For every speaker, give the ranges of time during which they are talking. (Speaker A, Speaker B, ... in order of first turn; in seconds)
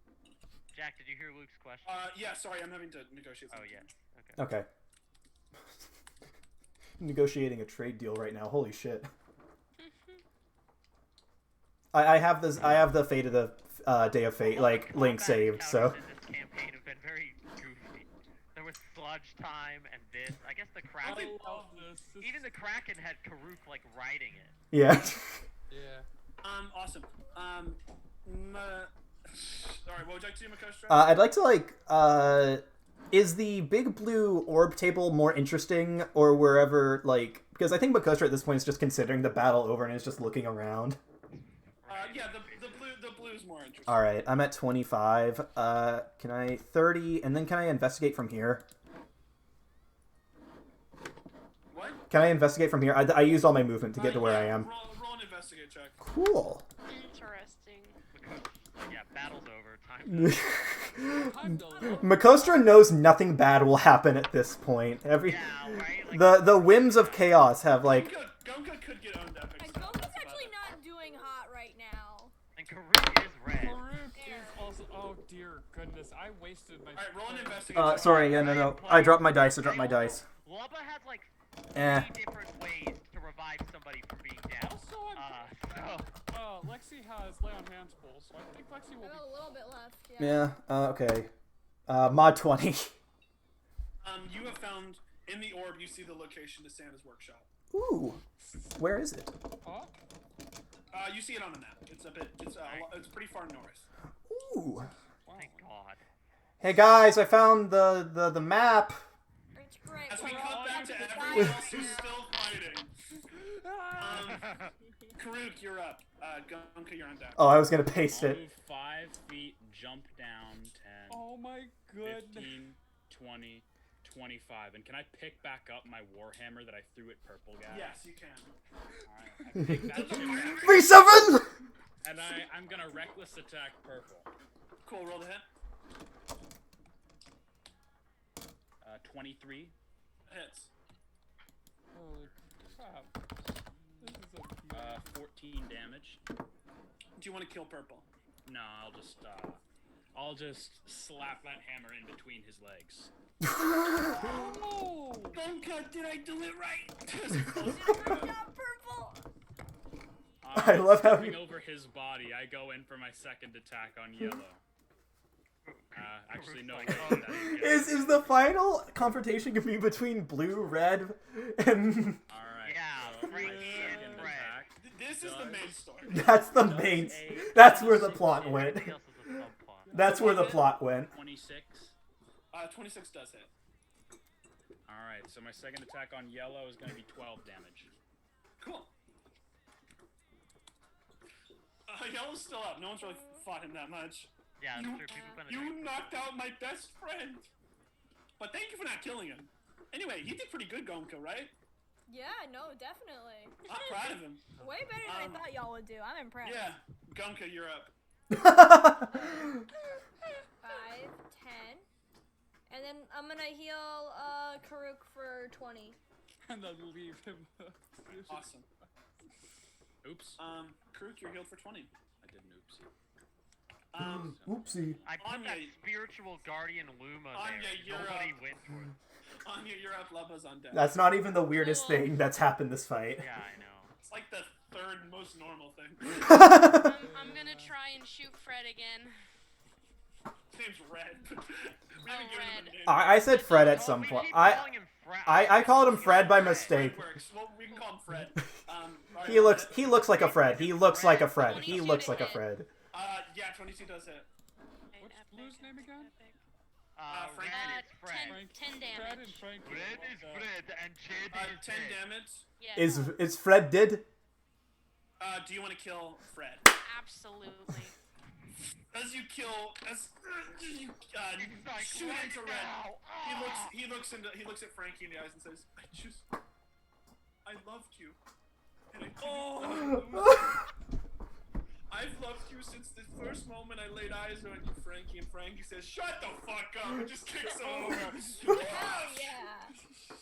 Speaker A: 0.7-2.2, 3.5-4.4, 14.4-24.6, 41.8-42.7, 58.1-60.7, 65.2-67.4, 72.5-73.8, 78.2-86.1, 102.6-103.0, 105.3-106.0, 165.7-168.2, 172.6-174.6, 177.6-179.9, 194.6-196.3, 225.0-228.9, 233.2-233.9, 243.4-246.8, 256.9-258.5, 259.6-262.1, 271.3-273.8
Speaker B: 1.8-3.9, 26.4-31.2, 41.9-44.1, 51.7-52.0, 53.9-56.0, 67.9-70.5, 76.9-78.4, 94.0-97.5, 100.9-103.8, 110.1-112.9, 114.0-114.5, 115.2-117.5, 127.7-128.5, 130.0-130.9, 134.8-135.4, 140.2-140.7, 147.2-148.1, 155.3-158.3, 173.6-174.0, 174.7-176.5, 182.5-183.5, 188.6-188.9, 191.9-197.5, 198.4-201.5, 203.7-204.5, 205.0-205.4, 206.4-207.9, 218.3-218.7, 220.4-221.9, 223.9-224.3, 225.2-225.8, 227.3-228.4, 229.4-230.9, 234.0-236.3, 240.5-243.2, 245.8-249.9, 252.9-254.3, 257.1-257.9, 261.3-262.4, 265.2-266.6, 268.9-276.2, 277.4-278.2, 278.9-280.6, 281.9-289.3
Speaker C: 4.4-4.7, 7.0-9.1, 11.9-16.0, 24.7-25.4, 30.9-41.0, 43.9-48.6, 52.1-54.7, 56.0-56.6, 60.0-68.1, 77.7-80.2, 81.7-82.1, 90.2-91.3, 91.9-92.9, 97.7-99.3, 104.3-104.9, 106.6-109.0, 117.4-118.4, 130.6-131.5, 153.4-154.2, 160.5-161.5, 167.2-172.2, 176.1-178.9, 179.9-181.1, 208.3-209.3, 224.0-225.0, 230.7-233.2, 236.2-237.0, 242.8-244.7, 245.2-247.0, 249.2-252.7, 262.7-264.1
Speaker D: 9.8-10.2, 56.9-58.0, 231.5-232.2, 236.6-239.1, 242.0-242.8, 247.7-247.9, 250.1-252.5, 254.9-256.4, 257.5-259.5, 262.6-263.2, 266.8-267.9
Speaker E: 21.0-22.7, 25.7-26.1, 61.1-62.7, 73.5-78.2, 84.6-89.6, 99.6-99.9, 105.2-105.7, 110.2-111.8, 113.3-114.7, 121.1-122.6, 130.0-130.7, 141.9-143.1, 144.0-145.1, 154.2-155.4, 173.2-174.4, 179.8-180.6, 216.5-218.5, 237.0-237.7, 255.0-256.2, 258.2-260.5, 279.2-279.7, 287.6-288.7
Speaker F: 69.6-72.3, 74.1-74.7, 89.0-90.5, 109.5-112.2, 157.4-159.3, 193.0-193.4, 202.1-204.1, 204.6-206.7, 209.1-209.6, 210.6-211.8, 212.7-216.0, 288.4-289.7
Speaker G: 118.0-121.3, 122.0-128.0, 129.1-131.0, 132.0-134.3, 138.8-139.7, 142.2-144.1, 144.7-146.2, 148.4-149.6, 150.1-153.1, 160.4-164.6, 165.9-168.5, 172.3-178.3, 179.9-181.9, 184.8-187.9, 220.0-220.4, 222.2-222.9, 224.2-224.7